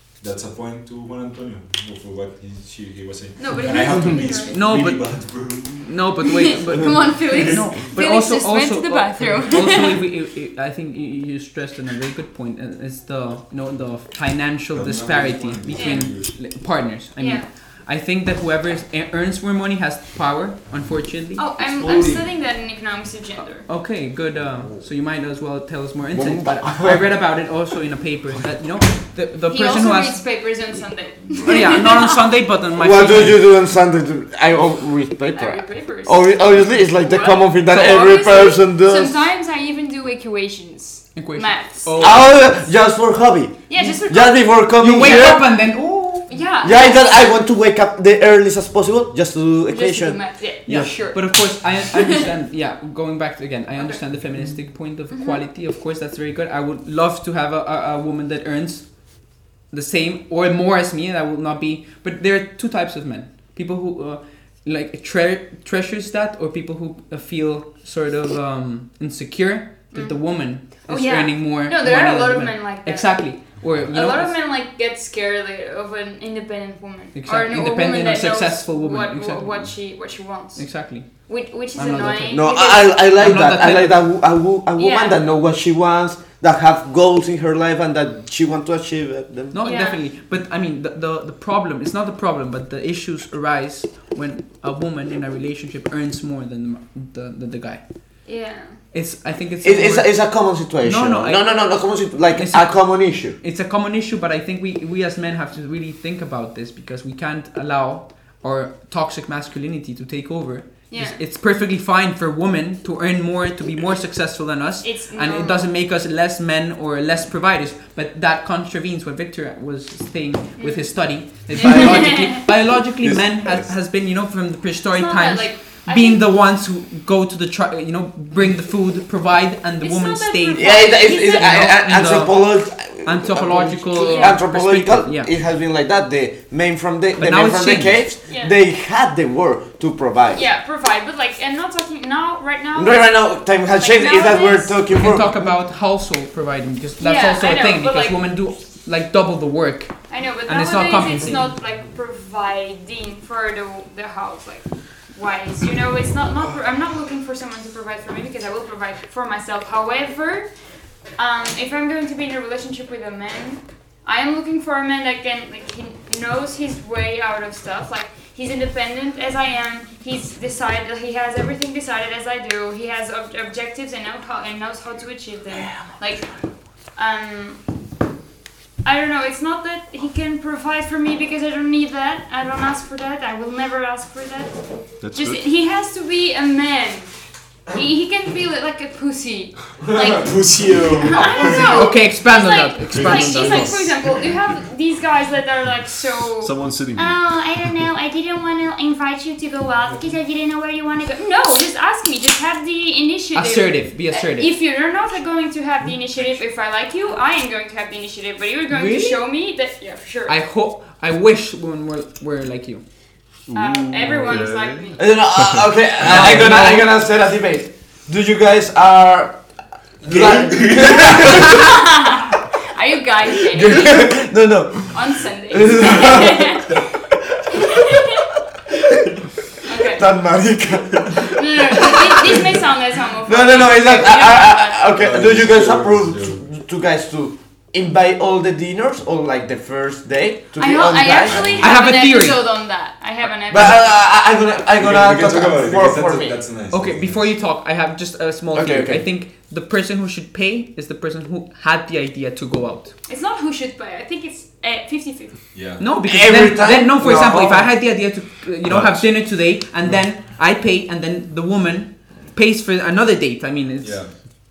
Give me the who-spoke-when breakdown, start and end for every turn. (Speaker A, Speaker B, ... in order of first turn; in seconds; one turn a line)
Speaker A: 0.2-5.9
Speaker B: 3.4-4.6
Speaker C: 4.5-21.4
Speaker B: 6.2-10.1
Speaker A: 7.3-7.7
Speaker A: 14.7-16.3
Speaker B: 15.8-16.3
Speaker B: 17.2-17.5
Speaker B: 21.4-23.7
Speaker C: 23.6-30.2
Speaker D: 26.1-27.1
Speaker B: 29.5-32.1
Speaker C: 31.4-33.5
Speaker D: 32.8-39.1
Speaker B: 35.3-42.1
Speaker C: 41.1-42.3
Speaker D: 42.0-45.4
Speaker B: 43.7-45.5
Speaker C: 44.8-46.3
Speaker B: 46.3-47.4
Speaker D: 46.6-50.9
Speaker B: 49.7-51.4
Speaker C: 50.6-74.4
Speaker B: 55.1-55.4
Speaker B: 69.9-83.0
Speaker C: 77.1-79.7
Speaker C: 80.5-84.0
Speaker D: 82.3-89.6
Speaker B: 84.8-85.2
Speaker C: 89.5-98.2
Speaker B: 89.6-90.0
Speaker B: 98.2-98.8
Speaker C: 98.9-132.5
Speaker D: 99.6-103.4
Speaker B: 110.9-111.2
Speaker B: 114.8-115.7
Speaker B: 120.6-122.3
Speaker D: 121.6-122.0
Speaker D: 123.0-123.7
Speaker B: 124.9-126.3
Speaker B: 129.8-131.8
Speaker D: 130.6-140.4
Speaker C: 133.0-135.3
Speaker B: 133.9-134.4
Speaker C: 137.2-138.0
Speaker B: 138.3-138.5
Speaker B: 140.3-144.8
Speaker D: 142.8-145.3
Speaker C: 144.9-151.5
Speaker B: 147.0-148.2
Speaker B: 150.1-160.5
Speaker B: 161.2-177.6
Speaker B: 178.8-184.6
Speaker E: 185.0-185.4
Speaker B: 185.1-187.1
Speaker B: 187.7-210.3
Speaker A: 190.1-191.6
Speaker C: 191.4-193.9
Speaker E: 193.0-193.8
Speaker E: 196.4-197.7
Speaker C: 203.3-204.5
Speaker C: 208.7-209.2
Speaker C: 210.3-212.8
Speaker E: 213.5-216.6
Speaker B: 213.5-215.0
Speaker D: 215.0-219.4
Speaker C: 216.0-216.9
Speaker D: 220.0-221.7
Speaker A: 220.0-221.4
Speaker B: 221.4-224.2
Speaker D: 223.4-226.6
Speaker B: 224.9-228.2
Speaker B: 229.6-230.1
Speaker D: 229.7-232.6
Speaker B: 231.2-234.9
Speaker D: 233.3-241.6
Speaker A: 234.9-236.4
Speaker B: 240.6-243.8
Speaker A: 241.2-241.7
Speaker C: 241.6-242.4
Speaker D: 243.5-246.3
Speaker A: 244.8-247.3
Speaker C: 246.7-252.9
Speaker D: 248.5-249.1
Speaker B: 253.1-255.4
Speaker A: 255.5-255.8
Speaker C: 255.8-264.0
Speaker D: 256.0-257.7
Speaker E: 258.6-259.1
Speaker A: 263.8-264.1